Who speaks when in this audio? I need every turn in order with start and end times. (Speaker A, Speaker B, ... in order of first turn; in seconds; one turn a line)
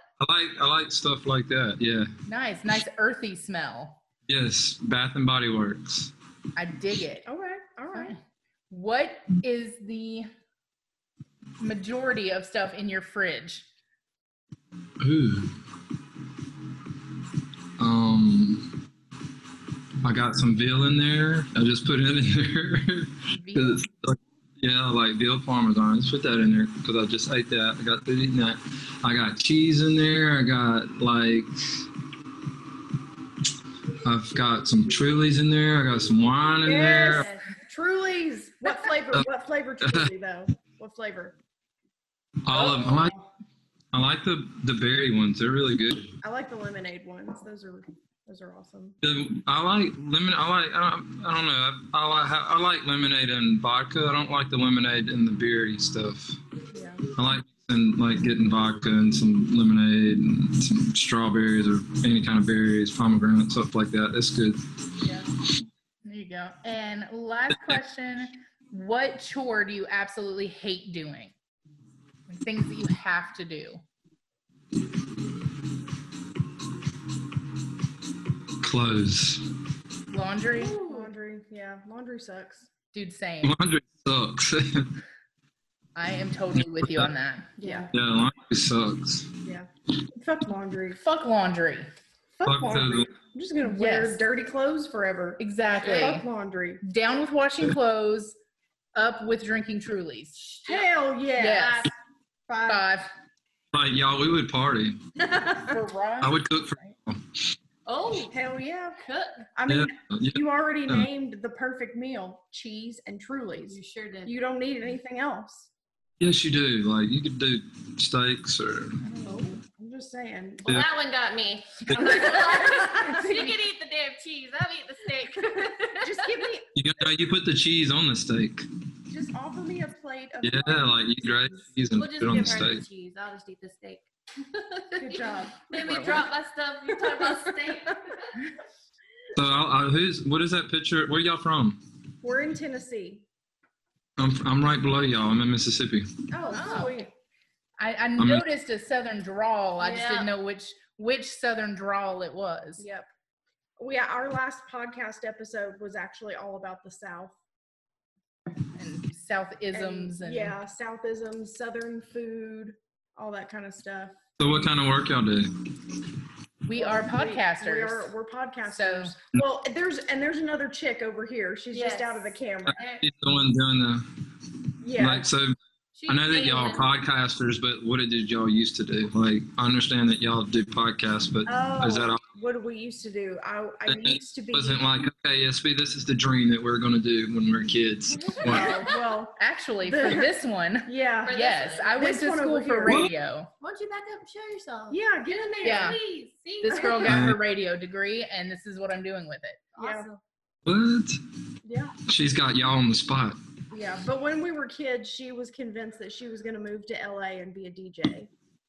Speaker A: 0.2-2.1
Speaker B: 2.3-4.0
Speaker A: 4.3-6.1
Speaker B: 6.5-7.3
Speaker C: 7.2-8.2
Speaker B: 7.9-8.2
Speaker B: 8.7-10.3
Speaker B: 11.6-13.7
Speaker A: 15.0-15.5
Speaker A: 17.8-18.7
Speaker A: 20.0-31.5
Speaker B: 23.3-23.8
Speaker A: 34.0-37.3
Speaker C: 36.6-41.3
Speaker D: 37.1-37.5
Speaker A: 39.8-40.1
Speaker A: 42.5-43.1
Speaker C: 42.5-43.3
Speaker A: 43.9-46.1
Speaker C: 46.2-49.0
Speaker A: 49.0-56.4
Speaker C: 56.7-57.0
Speaker A: 57.2-64.6
Speaker B: 66.0-71.3
Speaker A: 67.5-67.8
Speaker B: 72.3-73.8
Speaker A: 78.6-79.4
Speaker B: 80.1-81.0
Speaker C: 80.5-82.7
Speaker B: 82.9-83.5
Speaker A: 83.4-84.9
Speaker B: 86.0-87.5
Speaker A: 86.6-87.1
Speaker C: 87.6-87.9
Speaker D: 87.6-87.9
Speaker A: 87.9-89.3
Speaker C: 89.4-91.0
Speaker B: 91.0-91.9
Speaker C: 92.4-96.8
Speaker A: 92.4-93.1
Speaker B: 93.6-94.2
Speaker B: 95.4-96.2
Speaker D: 95.8-96.1
Speaker B: 96.8-98.4
Speaker B: 98.9-100.4
Speaker D: 100.4-100.9
Speaker C: 100.6-101.9
Speaker B: 101.4-101.9
Speaker C: 102.5-102.9
Speaker B: 102.7-103.1
Speaker A: 103.7-105.0
Speaker B: 105.6-106.4
Speaker A: 106.2-107.5
Speaker D: 107.8-108.3
Speaker C: 108.3-109.0
Speaker D: 109.0-109.5
Speaker C: 109.5-115.7
Speaker A: 109.7-111.1
Speaker D: 113.7-114.3
Speaker A: 116.2-119.0
Speaker C: 119.2-120.8
Speaker D: 119.2-119.5
Speaker D: 120.6-126.3
Speaker A: 121.9-122.3
Speaker C: 121.9-123.5
Speaker C: 125.5-126.7
Speaker A: 126.7-128.7
Speaker C: 129.1-131.8
Speaker A: 130.4-132.8
Speaker D: 131.9-138.3
Speaker C: 135.0-136.3
Speaker C: 136.9-137.9
Speaker A: 139.3-141.8
Speaker C: 142.2-143.2
Speaker A: 144.2-146.1
Speaker C: 146.3-147.1
Speaker B: 146.5-147.1
Speaker B: 147.8-152.8
Speaker A: 148.2-148.4
Speaker D: 149.8-150.3
Speaker C: 152.8-153.1
Speaker C: 153.8-157.3
Speaker B: 158.8-160.6
Speaker C: 159.7-164.2
Speaker A: 164.4-165.5
Speaker B: 166.7-168.1
Speaker C: 166.7-172.8
Speaker B: 168.7-169.1
Speaker D: 171.7-173.1
Speaker A: 173.0-174.0
Speaker C: 174.8-175.3
Speaker A: 175.0-175.6
Speaker D: 175.9-176.9
Speaker A: 176.1-182.2
Speaker C: 181.5-184.8
Speaker A: 183.8-188.7
Speaker D: 188.1-188.9
Speaker C: 188.4-190.3
Speaker B: 189.4-193.5
Speaker C: 190.8-191.4
Speaker D: 191.2-192.1
Speaker C: 191.9-193.1
Speaker D: 193.6-197.2
Speaker C: 194.9-196.0
Speaker B: 195.6-196.0
Speaker B: 196.6-199.6
Speaker C: 196.7-197.1
Speaker A: 197.1-197.4
Speaker D: 199.7-200.2
Speaker C: 199.8-200.1
Speaker A: 200.7-201.2
Speaker C: 201.6-201.9
Speaker A: 202.1-203.4
Speaker C: 203.7-208.3